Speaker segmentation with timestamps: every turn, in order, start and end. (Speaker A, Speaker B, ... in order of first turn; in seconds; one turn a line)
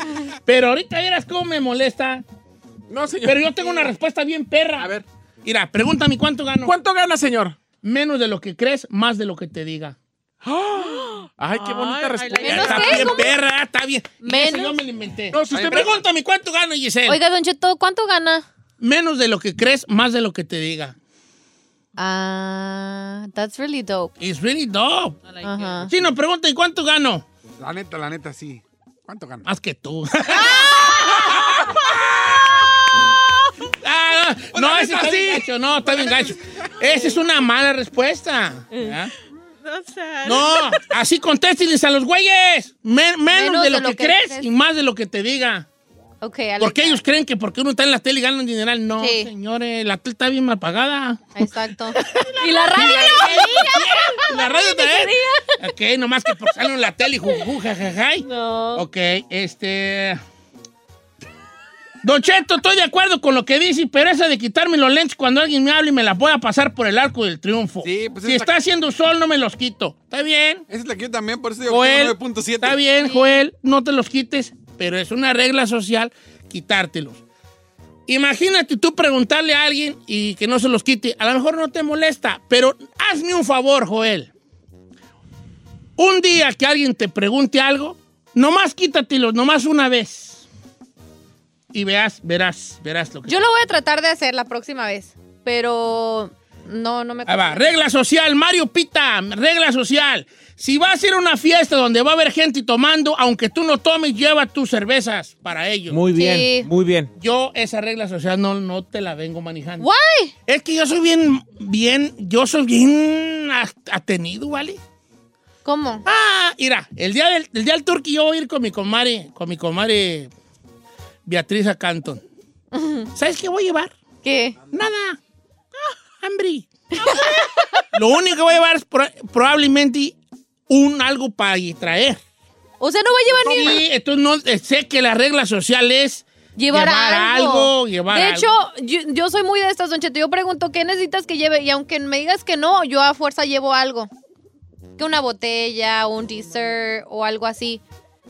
Speaker A: 0.5-2.2
Speaker B: 2.9-3.9
Speaker A: 3.2-4.9
Speaker B: 4.8-5.0
Speaker A: 5.4-6.7
Speaker B: 6.6-7.6
Speaker A: 7.8-10.0
Speaker B: 10.4-13.1
Speaker C: 10.8-13.0
Speaker D: 12.4-13.4
Speaker A: 12.4-17.2
Speaker D: 14.2-14.8
Speaker B: 15.3-16.0
Speaker E: 15.5-16.0
Speaker D: 17.1-18.5
Speaker A: 18.8-20.9
Speaker D: 22.0-24.1
Speaker A: 24.2-25.2
Speaker C: 25.2-25.9
Speaker D: 25.4-25.9
Speaker A: 25.9-27.2
Speaker E: 27.6-29.5
Speaker A: 29.5-31.6
Speaker E: 31.1-32.7
Speaker A: 33.8-39.1
Speaker E: 34.5-36.7
Speaker C: 39.6-40.9
Speaker A: 40.2-45.7
Speaker D: 43.3-44.5
Speaker D: 46.2-47.0
Speaker A: 46.6-60.2
Speaker D: 49.0-49.3
Speaker D: 51.4-55.6
Speaker D: 58.2-58.9
Speaker A: 62.0-70.7
Speaker E: 67.8-68.5
Speaker E: 70.7-72.8
Speaker A: 71.7-77.2
Speaker D: 73.0-73.3
Speaker A: 78.1-84.3
Speaker A: 86.0-90.4
Speaker A: 91.7-93.4
Speaker D: 93.3-97.7
Speaker A: 97.3-106.0
Speaker B: 105.9-107.1
Speaker D: 106.2-106.7
Speaker A: 107.2-109.9
Speaker D: 109.8-110.3
Speaker A: 110.5-114.8
Speaker D: 115.7-116.0
Speaker A: 116.1-120.3
Speaker A: 121.3-122.2
Speaker D: 122.7-123.1
Speaker A: 123.1-123.9
Speaker D: 124.2-124.6
Speaker A: 124.7-125.2
Speaker A: 126.2-126.7
Speaker D: 127.0-127.8
Speaker A: 127.9-130.2
Speaker A: 130.7-132.2
Speaker D: 132.8-133.8
Speaker A: 133.5-138.5
Speaker D: 136.6-144.1
Speaker D: 145.0-147.8